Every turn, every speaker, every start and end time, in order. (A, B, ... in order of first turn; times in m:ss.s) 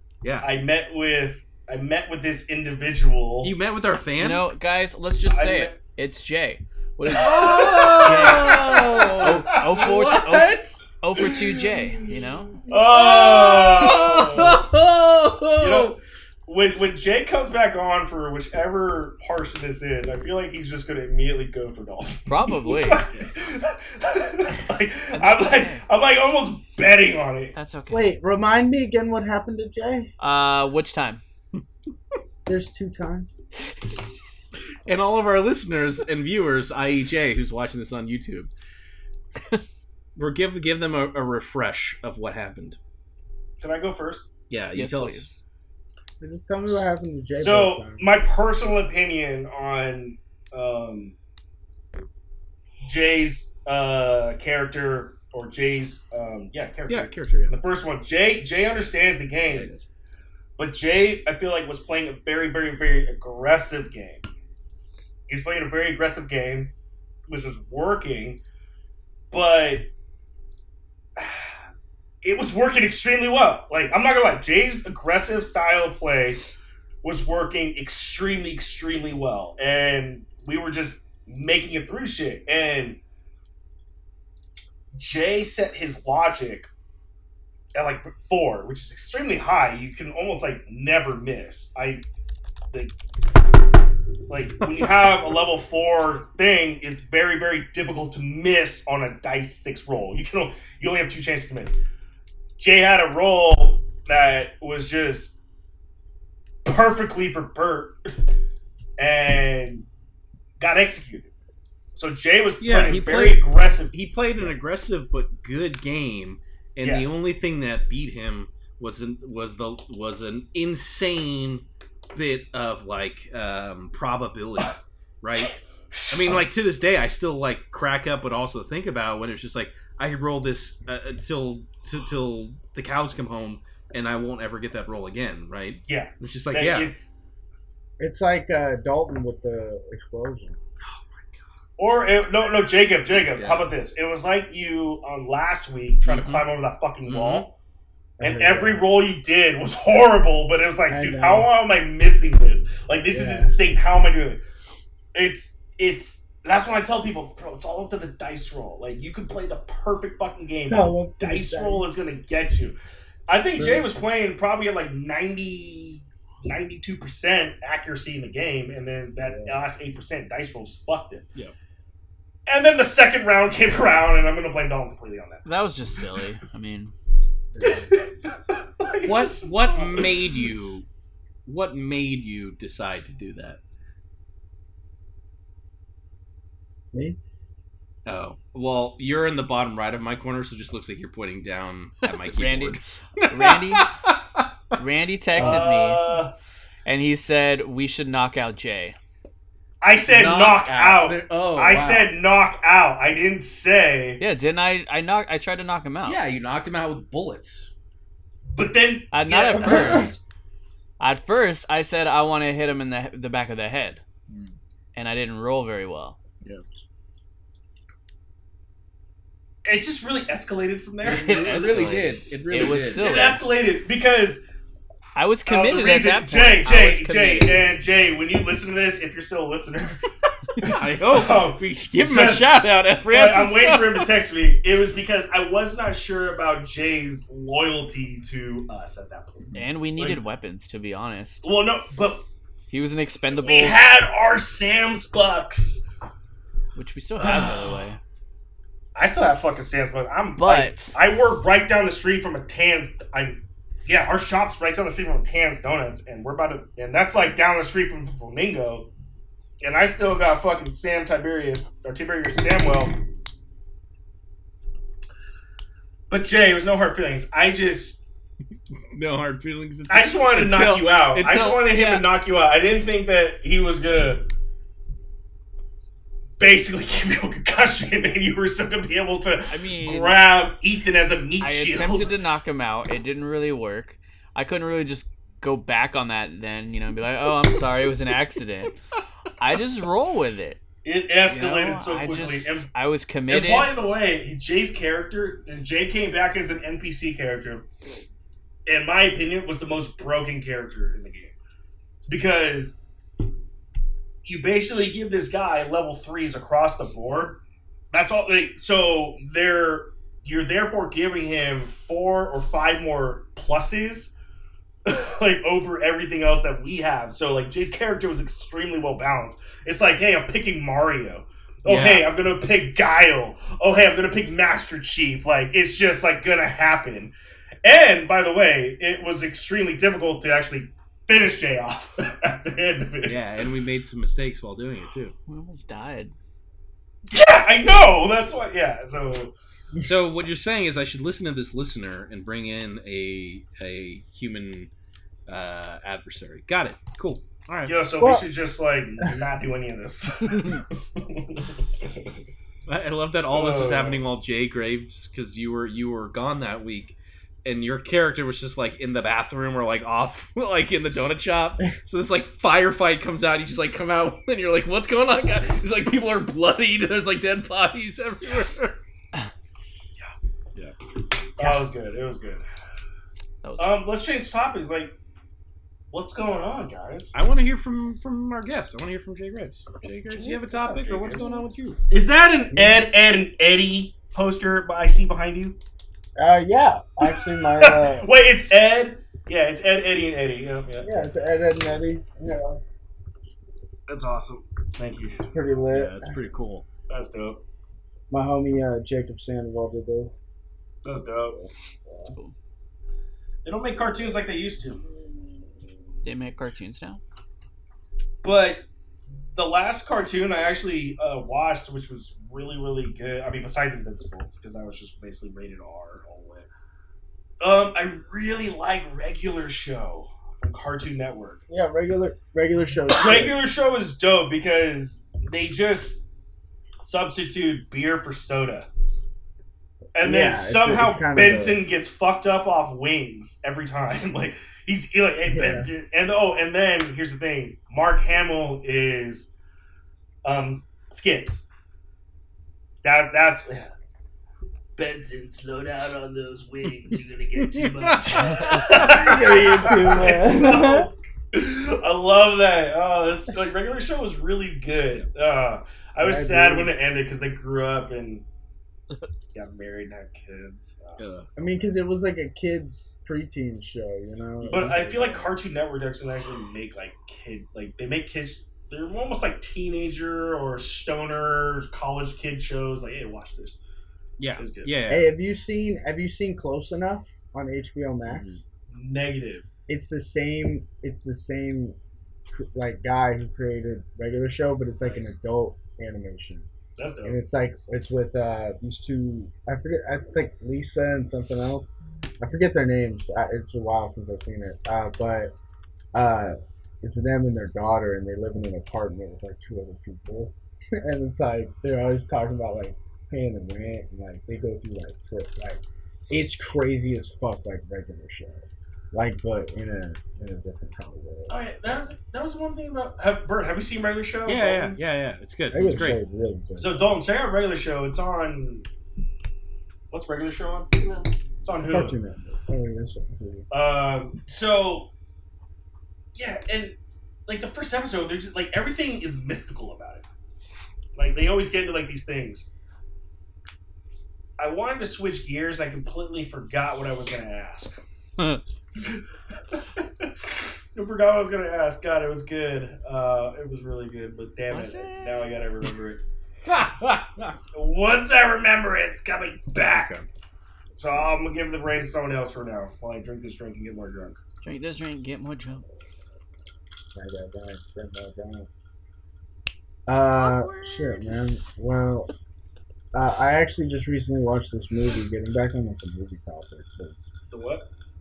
0:00.2-0:00.5 A
0:00.4-0:03.5 B
0:03.4-0:04.5 A
0:04.2-0:12.6 C
0:05.3-0:05.8 B
0:07.1-0:12.1 A
0:07.1-0:09.9 B
0:12.7-0:16.0 A
0:12.7-0:14.6 B
0:15.6-0:27.5 B
0:22.3-0:23.0 C
0:25.1-0:25.8 C
0:27.5-0:28.1 C
0:27.9-0:30.1 D
0:30.2-0:31.2 C
0:32.4-0:33.4 D
0:34.8-0:38.5 A
0:40.2-0:42.8 A
0:43.6-0:44.3 B
0:44.5-0:45.3 A
0:44.7-0:45.4 C
0:46.2-0:48.0 D
0:47.4-0:51.2 B
0:52.8-0:59.7 B
0:56.9-0:57.6 A
0:59.4-0:59.9 A
1:00.6-1:04.2 B
1:05.3-1:06.7 B
1:07.3-1:08.4 B
1:09.3-1:09.9 B
1:11.2-1:11.5 B
1:12.2-1:16.4 B
1:17.0-1:23.0 B
1:24.9-1:26.7 B
1:27.7-1:32.0 B
1:32.7-1:33.0 B
1:34.3-1:41.8 B
1:34.6-1:35.1 A
1:42.6-1:45.4 B
1:46.6-1:48.3 B
1:49.0-1:49.9 B
1:50.6-1:51.3 B
1:51.9-1:53.9 B
1:52.6-2:16.9 A
1:56.8-1:57.1 B
2:05.9-2:06.4 B
2:15.9-2:17.1 B
2:18.0-2:20.6 D
2:20.8-2:21.4 A
2:21.8-2:27.6 B
2:23.3-2:23.7 A
2:26.0-2:26.5 A
2:27.0-2:27.4 A
2:28.2-2:28.8 D
2:28.2-2:34.4 B
2:30.9-2:31.5 D
2:33.1-2:33.5 D
2:35.1-2:42.8 B
2:40.6-2:42.2 D
2:43.3-2:51.3 B
2:43.5-2:43.9 D
2:49.2-2:49.6 D
2:52.5-2:55.4 B
2:55.4-2:56.9 C
2:57.5-2:57.9 D
2:57.9-3:00.4 B
2:59.0-3:00.8 A
3:01.4-3:03.6 A
3:08.0-3:14.4 A
3:12.0-3:13.9 C
3:14.8-3:16.0 C
3:15.3-3:16.3 B
3:15.4-3:15.6 D
3:16.8-3:19.0 C
3:19.8-3:24.2 B
3:20.0-3:22.1 A
3:24.2-3:26.2 C
3:26.0-3:27.7 A
3:28.5-3:30.1 B
3:29.1-3:30.2 C
3:29.7-3:30.0 D
3:31.0-3:34.0 C
3:34.9-3:36.2 C
3:39.6-3:44.4 B
3:41.0-3:43.4 C
3:41.1-3:43.0 A
3:45.1-3:47.6 C
3:45.5-4:00.2 B
3:50.6-3:54.1 A
3:59.5-4:01.5 C
4:01.4-4:02.2 B
4:02.7-4:03.8 C
4:03.4-4:05.8 B
4:06.7-4:08.0 C
4:07.2-4:07.8 B
4:08.9-4:18.9 B
4:10.4-4:11.0 C
4:19.6-4:22.9 B
4:26.1-4:28.0 B
4:28.9-4:31.6 A
4:29.9-4:34.2 B
4:31.6-4:32.1 C
4:36.4-4:42.1 B
4:39.5-4:40.2 C
4:41.4-4:48.7 C
4:49.4-4:50.6 C
4:50.8-4:52.7 B
4:51.3-4:53.7 C
4:53.3-4:57.6 B
4:58.6-5:01.3 B
5:02.1-5:02.8 B
5:04.2-5:07.4 B
5:07.9-5:14.1 B
5:14.8-5:33.2 B
5:21.6-5:22.1 A
5:33.0-5:35.1 A
5:35.3-5:36.1 C
5:37.1-5:39.3 B
5:39.8-5:44.7 A
5:45.3-5:47.7 A
5:47.6-5:52.1 B
5:48.0-5:48.3 D
5:52.6-6:08.8 A
5:53.3-5:54.0 B
6:11.4-6:12.4 B
6:13.4-6:13.7 C
6:13.6-6:14.9 B
6:15.9-6:17.1 B
6:17.1-6:21.8 A
6:20.1-6:25.6 B
6:22.5-6:22.8 D
6:26.2-6:28.1 D
6:27.0-6:31.0 B
6:30.8-6:32.6 D
6:33.9-6:35.3 B
6:35.3-6:36.1 D
6:35.7-6:36.6 A
6:36.9-6:37.4 B
6:38.1-6:40.1 D
6:40.8-6:41.4 B
6:41.3-6:42.1 D
6:42.1-6:42.3 C
6:43.4-6:44.8 B
6:46.0-6:47.0 C
6:48.2-6:48.6 B
6:49.3-6:56.5 B
6:57.4-7:01.4 B
7:01.5-7:03.4 D
7:03.0-7:06.0 B
7:06.8-7:08.7 B
7:09.9-7:19.3 B
7:10.0-7:11.6 D
7:15.3-7:15.7 D
7:20.2-7:21.5 B
7:22.8-7:23.7 B
7:24.8-7:38.2 B
7:27.4-7:30.0 A
7:28.7-7:30.9 D
7:36.0-7:36.7 D
7:39.3-7:41.0 B
7:41.0-7:41.3 A
7:41.4-7:45.3 D
7:44.4-7:53.6 B
7:54.2-7:55.1 A
7:54.4-7:54.7 B
7:54.9-7:58.4 D
7:58.0-7:58.4 A
7:58.7-7:59.5 B
7:59.7-8:01.8 D
8:02.3-8:06.5 D
8:06.8-8:07.2 B
8:07.0-8:15.3 D
8:15.9-8:31.8 D
8:31.3-8:34.8 B
8:34.3-8:36.0 A
8:35.5-8:36.9 D
8:36.6-8:38.7 B
8:39.9-8:42.0 B
8:41.7-8:43.5 D
8:43.5-8:44.9 B
8:46.1-8:46.8 B
8:47.3-8:50.0 B
8:51.0-8:52.5 B
8:54.4-8:57.8 B
8:58.8-9:06.0 B
9:04.5-9:05.4 C
9:06.4-9:07.4 A
9:07.5-9:10.0 B
9:09.6-9:10.1 A
9:10.7-9:14.2 B
9:14.4-9:15.6 C
9:16.9-9:18.5 D
9:19.9-9:22.1 D
9:20.2-9:21.4 C
9:22.9-9:27.1 D
9:27.3-9:27.6 B